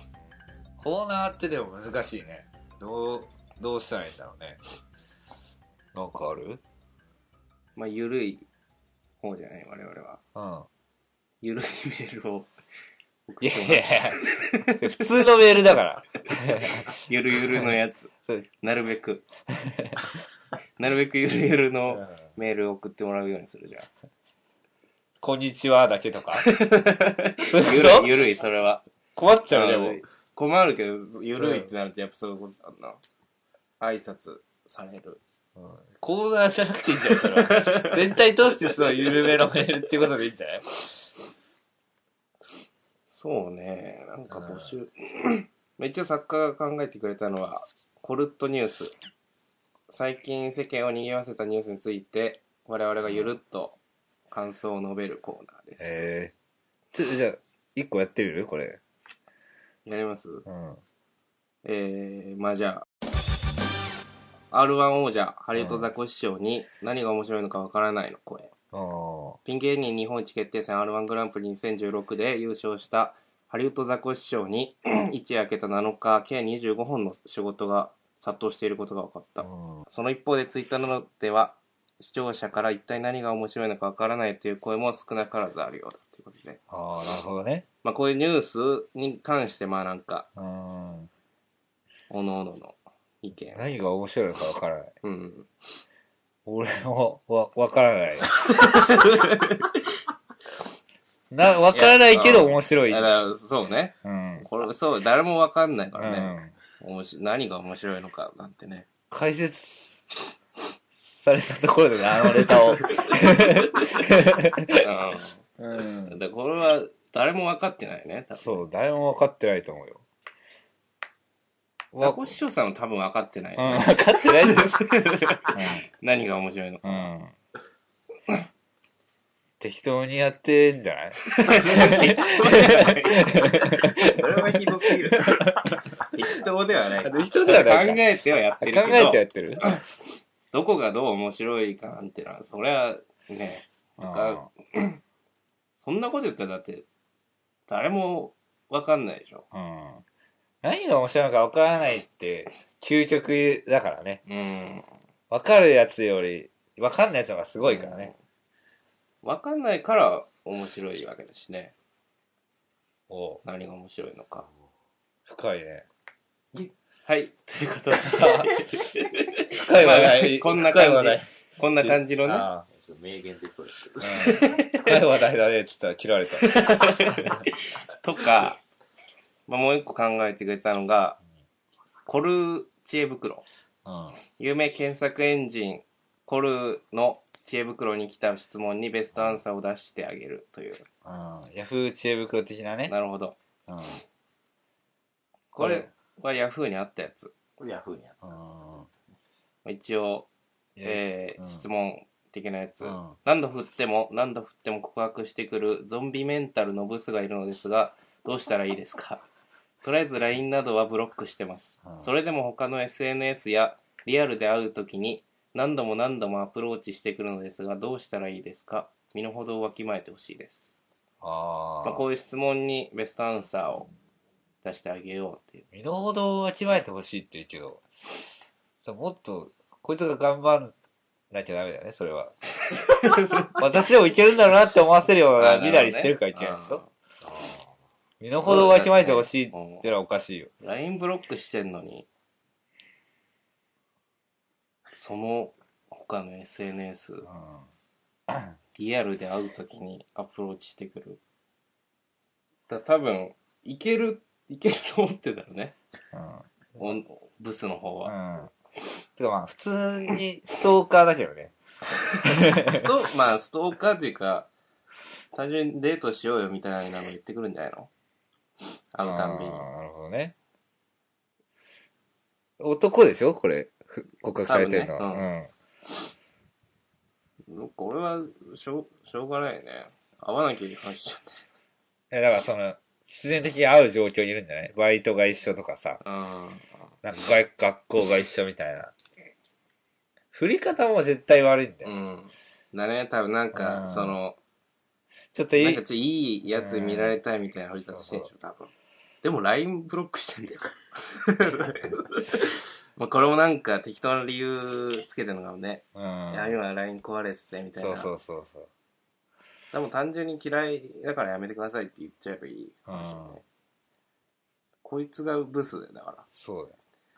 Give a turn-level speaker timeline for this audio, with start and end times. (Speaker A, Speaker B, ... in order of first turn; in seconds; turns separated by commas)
Speaker A: 0.8-4.6, Speaker A: 5.9-6.6, Speaker B: 7.8-8.5, Speaker B: 9.2-10.2, Speaker A: 10.3-10.7, Speaker B: 11.4-12.5, Speaker B: 13.3-15.0, Speaker A: 13.4-17.7, Speaker B: 16.9-19.2, Speaker A: 19.5-20.2, Speaker B: 20.8-23.9, Speaker A: 21.9-22.2, Speaker A: 25.2-26.5, Speaker B: 26.4-28.8, Speaker A: 27.5-28.2, Speaker A: 29.2-30.0, Speaker B: 29.5-33.0, Speaker A: 31.4-31.7, Speaker B: 33.8-35.2, Speaker A: 35.6-41.1, Speaker B: 37.1-38.0, Speaker B: 43.1-48.9, Speaker A: 44.3-44.7, Speaker B: 49.9-53.8, Speaker A: 53.0-53.3, Speaker B: 54.3-56.1, Speaker A: 55.8-56.3, Speaker A: 56.9-58.8, Speaker B: 59.9-60.5, Speaker A: 60.5-60.8, Speaker B: 61.6-62.9, Speaker B: 64.5-68.5, Speaker A: 65.6-65.9, Speaker A: 68.7-69.4, Speaker B: 69.5-86.6, Speaker A: 79.4-79.8, Speaker A: 86.7-87.7, Speaker B: 87.8-90.3, Speaker A: 90.4-91.1, Speaker B: 92.1-93.6, Speaker A: 93.5-94.9, Speaker B: 95.0-95.5, Speaker A: 96.5-98.5, Speaker B: 98.6-99.8, Speaker A: 101.3-103.1, Speaker B: 101.7-108.9, Speaker A: 104.0-104.5, Speaker A: 106.0-106.5, Speaker A: 109.1-110.0, Speaker A: 111.0-114.8, Speaker B: 114.8-115.4, Speaker A: 115.6-116.2, Speaker B: 116.1-118.6, Speaker A: 118.4-120.0, Speaker A: 121.9-122.2, Speaker B: 122.0-127.1, Speaker A: 123.6-124.8, Speaker A: 125.5-125.8, Speaker A: 126.8-127.3, Speaker A: 129.6-134.6, Speaker B: 131.2-139.9, Speaker A: 135.1-136.0, Speaker A: 137.0-139.8, Speaker B: 140.5-145.0, Speaker A: 144.0-144.5, Speaker B: 145.8-146.9, Speaker B: 147.7-149.5, Speaker A: 149.5-150.0, Speaker A: 150.6-154.2, Speaker B: 154.3-154.8, Speaker A: 155.3-158.1, Speaker B: 157.6-158.2, Speaker B: 159.2-161.7, Speaker A: 163.1-163.4, Speaker B: 163.4-164.5, Speaker A: 165.3-165.9, Speaker B: 166.6-172.5, Speaker A: 168.1-168.6, Speaker A: 169.5-172.7, Speaker C: 172.7-174.3, Speaker A: 174.0-177.4, Speaker B: 174.1-175.0, Speaker B: 176.4-178.6, Speaker B: 179.5-181.2, Speaker B: 182.1-183.4, Speaker A: 183.8-184.2, Speaker B: 184.4-190.9, Speaker A: 191.0-192.9, Speaker B: 192.9-193.4, Speaker A: 193.7-194.0, Speaker B: 195.5-197.3, Speaker A: 195.6-195.9, Speaker C: 197.6-198.2, Speaker A: 198.2-198.9, Speaker B: 199.7-200.3, Speaker A: 200.8-201.6, Speaker B: 200.8-209.2, Speaker A: 202.8-203.2, Speaker B: 209.8-220.7, Speaker A: 211.8-212.1, Speaker A: 221.2-222.0, Speaker B: 221.8-223.9, Speaker B: 224.6-225.7, Speaker A: 225.7-227.9, Speaker A: 228.8-230.7, Speaker A: 231.3-232.3, Speaker B: 232.7-233.6, Speaker A: 233.5-236.8, Speaker B: 235.4-236.9, Speaker C: 237.2-237.7, Speaker A: 238.2-240.5, Speaker B: 238.4-239.9, Speaker B: 240.6-242.1, Speaker B: 244.9-247.3, Speaker A: 247.3-247.7, Speaker A: 248.3-248.6, Speaker B: 248.8-251.2, Speaker B: 252.7-255.8, Speaker A: 256.1-257.0, Speaker B: 256.8-258.1, Speaker A: 258.1-258.5, Speaker A: 259.2-261.5, Speaker B: 262.1-264.5, Speaker A: 262.2-262.9, Speaker B: 265.3-267.9, Speaker B: 268.9-269.7, Speaker A: 269.0-270.4, Speaker A: 272.6-275.5, Speaker B: 274.5-275.3, Speaker B: 277.5-281.4, Speaker A: 282.1-286.0, Speaker B: 286.0-286.7, Speaker A: 287.0-288.9, Speaker A: 290.3-291.9, Speaker B: 291.8-294.4, Speaker A: 293.5-294.2, Speaker A: 295.3-295.8, Speaker B: 295.6-298.7, Speaker A: 296.6-297.2, Speaker A: 297.9-298.3, Speaker B: 299.2-308.1, Speaker A: 305.9-306.5, Speaker A: 307.8-308.7, Speaker B: 309.7-313.4, Speaker A: 312.9-313.4, Speaker B: 314.8-316.3, Speaker A: 316.3-316.8